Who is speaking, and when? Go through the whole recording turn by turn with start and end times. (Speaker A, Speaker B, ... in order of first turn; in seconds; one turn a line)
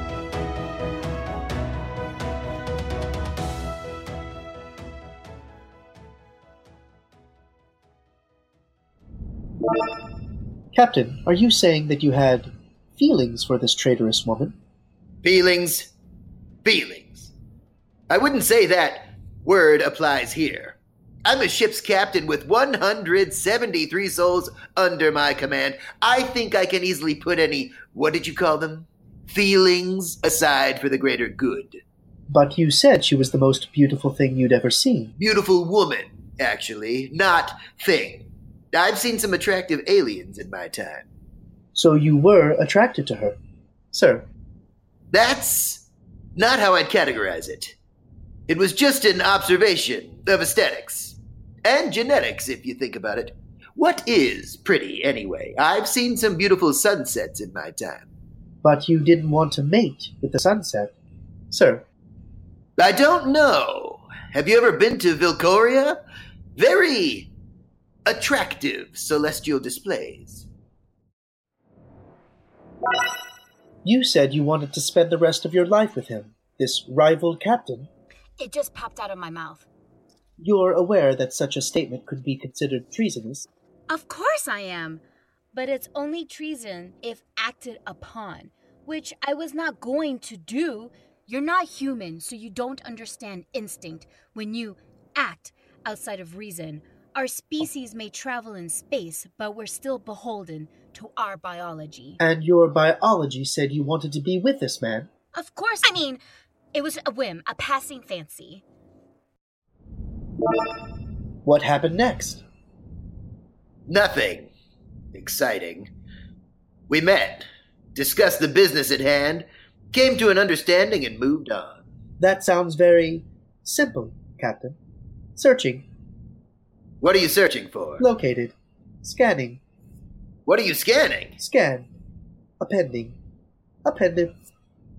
Speaker A: 10.7-14.6
Speaker B: 15.2-15.9
Speaker B: 16.6-17.3
Speaker B: 18.1-31.8
Speaker A: 32.3-35.1
Speaker B: 35.2-41.1
Speaker A: 41.7-43.4
Speaker A: 43.9-44.3
Speaker B: 45.1-47.7
Speaker B: 48.5-58.1
Speaker A: 58.6-60.9
Speaker A: 61.5-61.8
Speaker B: 62.8-66.0
Speaker B: 66.6-67.3
Speaker B: 68.1-70.5
Speaker A: 73.8-77.9
Speaker C: 78.4-79.7
Speaker A: 80.4-83.5
Speaker C: 83.9-85.0
Speaker C: 85.5-102.2
Speaker A: 102.2-105.1
Speaker C: 105.3-106.2
Speaker C: 106.7-108.6
Speaker A: 111.4-112.4
Speaker B: 113.9-114.5
Speaker B: 115.1-115.9
Speaker B: 116.9-121.8
Speaker A: 122.2-124.8
Speaker A: 125.4-125.9
Speaker B: 127.0-128.1
Speaker A: 128.0-129.6
Speaker B: 130.5-131.4
Speaker A: 131.4-131.9
Speaker A: 132.6-133.2
Speaker A: 133.8-134.3